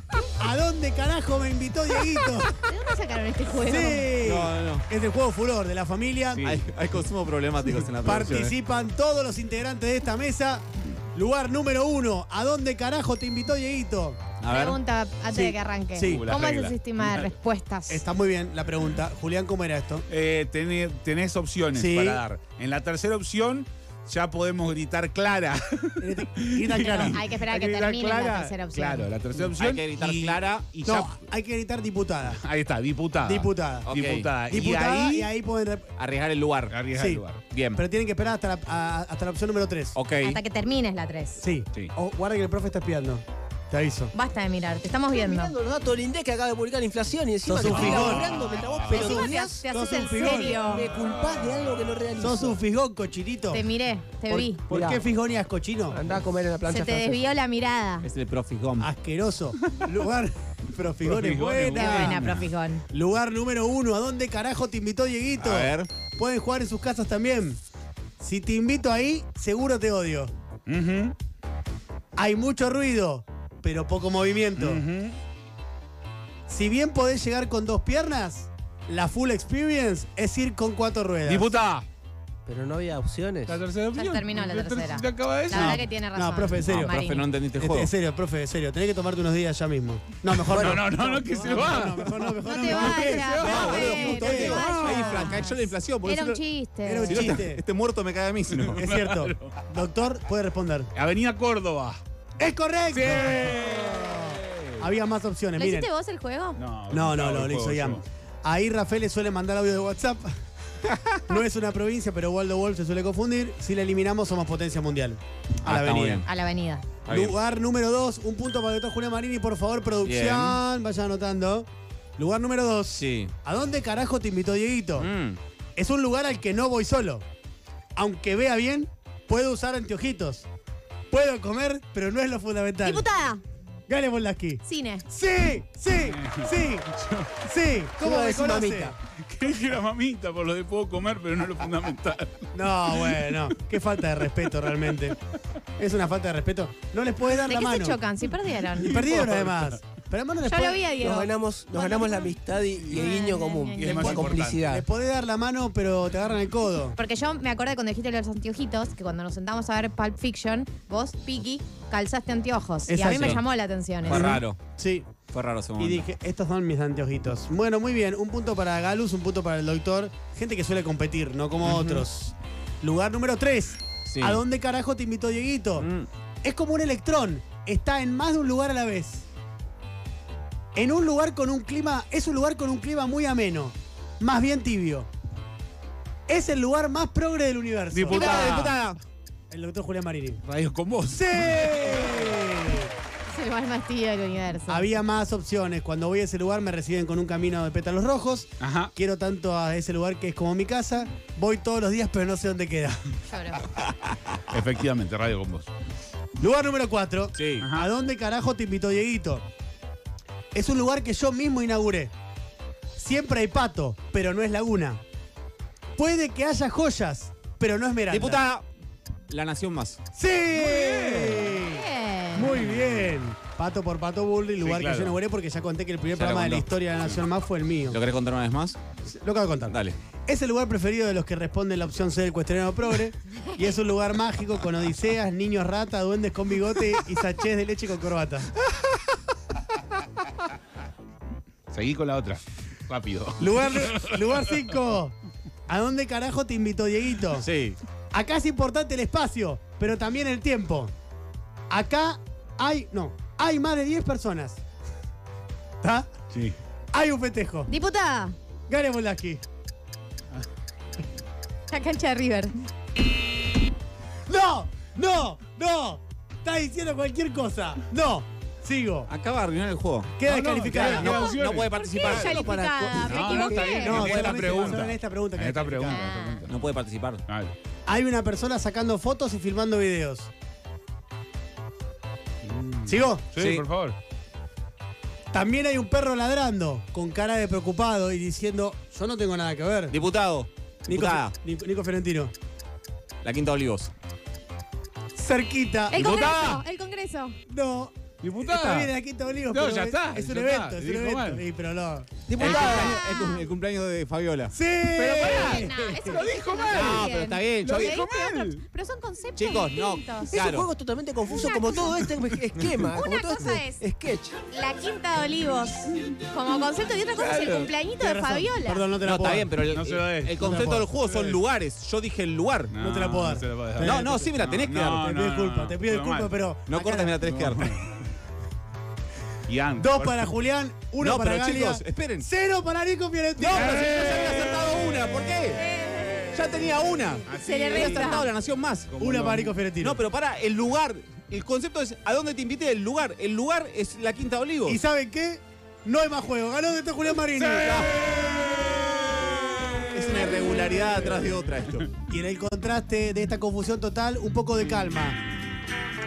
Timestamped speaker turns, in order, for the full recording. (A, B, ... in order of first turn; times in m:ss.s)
0:00.4-0:02.6 A
0:02.6-0:04.1 B
0:03.6-0:06.6 A
0:04.2-0:04.9 C
0:06.4-0:08.5 C
0:08.0-0:14.3 A
0:14.4-0:14.8 C
0:14.5-0:18.0 B
0:15.3-0:16.2 A
0:16.0-0:17.3 D
0:17.9-0:20.0 A
0:20.1-0:31.1 D
0:21.7-0:22.2 A
0:26.0-0:27.2 A
0:27.0-0:29.1 B
0:29.6-0:30.7 C
0:30.8-0:32.4 A
0:32.3-0:35.3 D
0:33.2-0:33.9 A
0:33.8-0:34.3 C
0:34.5-0:35.9 A
0:36.0-0:36.7 C
0:36.7-0:37.4 D
0:36.9-0:37.2 A
0:37.5-0:37.8 C
0:37.7-0:40.0 A
0:39.9-0:40.4 C
0:40.2-0:41.4 B
0:41.4-0:44.1 A
0:44.1-0:45.5 B
0:45.1-0:49.6 E
0:47.5-0:50.6 A
0:47.7-0:49.1 D
0:48.6-0:50.9 B
0:50.2-0:52.6 E
0:52.2-0:53.6 A
0:53.5-0:54.6 B
0:54.3-0:55.0 E
0:54.7-0:56.0 A
0:55.9-0:57.2 E
0:56.6-0:58.1 B
0:58.0-0:58.9 C
0:58.8-1:02.3 A
1:01.0-1:02.5 D
1:01.7-1:02.8 B
1:02.9-1:07.6 A
1:05.4-1:05.9 C
1:08.2-1:10.3 A
1:10.7-1:11.1 D
1:12.2-1:14.8 A
1:14.6-1:15.2 D
1:16.5-1:21.5 A
1:21.2-1:21.9 D
1:22.4-1:23.6 E
1:23.5-1:25.9 D
1:23.9-1:27.2 B
1:25.5-1:27.0 A
1:26.7-1:27.9 C
1:27.5-1:35.3 A
1:30.3-1:34.1 D
1:30.5-1:30.8 E
1:32.4-1:37.4 B
1:33.4-1:36.4 C
1:34.6-1:35.1 D
1:36.8-1:37.6 A
1:37.0-1:38.8 C
1:38.6-1:39.6 D
1:38.7-1:40.9 A
1:41.0-1:42.0 D
1:42.4-1:45.9 A
1:42.9-1:44.8 D
1:45.6-1:46.6 B
1:46.6-1:48.0 D
1:46.9-1:50.4 A
1:50.8-1:51.2 C
1:51.3-1:56.2 A
1:55.6-1:56.3 C
1:56.2-1:56.8 B
1:57.0-1:57.4 C
1:57.1-2:05.1 A
2:00.0-2:00.6 C
2:02.9-2:03.3 C
2:05.0-2:05.4 C
2:05.8-2:07.2 A
2:08.0-2:10.5 A
2:11.1-2:13.0 A
2:12.8-2:13.4 B
2:13.9-2:16.9 A
2:14.6-2:15.0 B
2:16.0-2:17.4 D
2:17.4-2:19.0 A
2:18.0-2:18.9 E
2:19.1-2:23.4 D
2:22.5-2:25.2 A
2:25.8-2:28.0 A
2:27.3-2:29.3 B
2:28.8-2:30.8 A
2:29.2-2:29.6 D
2:30.4-2:32.3 B
2:30.9-2:34.8 E
2:32.8-2:33.1 D
2:32.9-2:34.3 B
2:33.8-2:34.6 D
2:34.0-2:37.0 A
2:37.0-2:44.2 B
2:42.9-2:43.4 A
2:43.1-2:43.4 D
2:44.0-2:44.6 C
2:44.1-2:45.1 A
2:45.3-2:46.0 C
2:45.8-2:55.9 A
2:51.6-2:52.0 C
2:54.1-2:54.4 C
2:55.8-2:56.1 C
2:56.4-2:59.2 A
3:00.7-3:05.1 A
3:06.3-3:08.6 A
3:07.9-3:08.8 D
3:08.1-3:09.0 C
3:09.5-3:10.4 A
3:10.4-3:12.0 D
3:11.1-3:12.9 A
3:13.3-3:14.9 B
3:14.7-3:23.0 A
3:18.6-3:18.9 D
3:23.3-3:23.7 B
3:24.5-3:25.7 D
3:26.4-3:29.4 A
3:27.4-3:27.7 C
3:27.6-3:27.9 D
3:30.5-3:32.1 A
3:33.0-3:35.0 A
3:36.0-3:38.4 A
3:38.1-3:38.6 C
3:39.3-3:40.0 C
3:40.1-3:48.0 A
3:40.5-3:41.6 D
3:41.6-3:42.6 B
3:42.5-3:43.2 D
3:44.6-3:45.2 D
3:46.1-3:46.6 C
3:47.9-3:48.8 C
3:49.0-3:58.5 A
3:49.7-3:50.0 C
4:01.7-4:04.6 D
4:03.4-4:05.1 A
4:05.7-4:07.4 A
4:07.4-4:07.8 C
4:08.1-4:10.9 A
4:11.7-4:14.6 A
4:15.8-4:16.1 A
4:16.9-4:17.7 A
4:17.7-4:18.3 B
4:18.7-4:19.4 A
4:21.7-4:22.5 B
4:24.3-4:29.1 A
4:29.1-4:30.2 C
4:30.2-4:31.1 A
4:30.2-4:32.4 D
4:30.7-4:34.8 C
4:31.0-4:34.1 B
4:33.0-4:36.5 D
4:33.7-4:36.0 A
4:35.8-4:36.5 B
4:36.5-4:37.2 C
4:37.3-4:37.5 D
4:37.9-4:40.3 A
4:42.4-4:44.0 D
4:42.8-4:43.2 A
4:43.4-4:43.6 C
4:45.3-4:49.9 A
4:49.9-4:51.3 C
4:50.9-4:52.3 A
4:53.2-4:53.9 C
4:55.1-4:56.0 A
4:55.9-4:57.4 B
4:55.9-4:56.6 D
4:57.5-5:02.1 A
4:58.2-4:58.9 D
4:59.5-5:01.4 D
5:02.3-5:03.0 E
5:02.4-5:05.7 C
5:02.4-5:03.5 B
5:04.5-5:06.2 A
5:05.0-5:07.1 D
5:05.2-5:10.4 B
5:06.7-5:08.1 C
5:07.6-5:08.6 D
5:07.8-5:08.2 E
5:09.3-5:10.7 C
5:10.3-5:14.4 E
5:11.3-5:12.0 B
5:12.9-5:13.8 B
5:14.5-5:18.9 B
5:17.2-5:17.7 D
5:18.0-5:19.5 A
5:19.0-5:22.7 C
5:19.6-5:21.4 D
5:20.4-5:20.9 A
5:22.7-5:26.4 D
5:22.8-5:24.3 A
5:23.8-5:25.0 C
5:24.9-5:27.2 A
5:26.7-5:27.8 C
5:27.2-5:28.1 D
5:29.5-5:30.3 D
5:29.8-5:33.8 A
5:31.0-5:32.3 C
5:33.4-5:35.6 C
5:33.8-5:34.5 D
5:35.6-5:36.3 B
5:36.3-5:38.9 C
5:37.3-5:38.3 D
5:37.3-5:38.3 B
5:38.9-5:39.6 D
5:39.0-5:40.0 A
5:39.8-5:44.8 C
5:44.6-5:48.0 A
5:47.3-5:50.0 D
5:49.9-5:51.9 C
5:50.2-5:50.8 B
5:52.1-5:55.2 A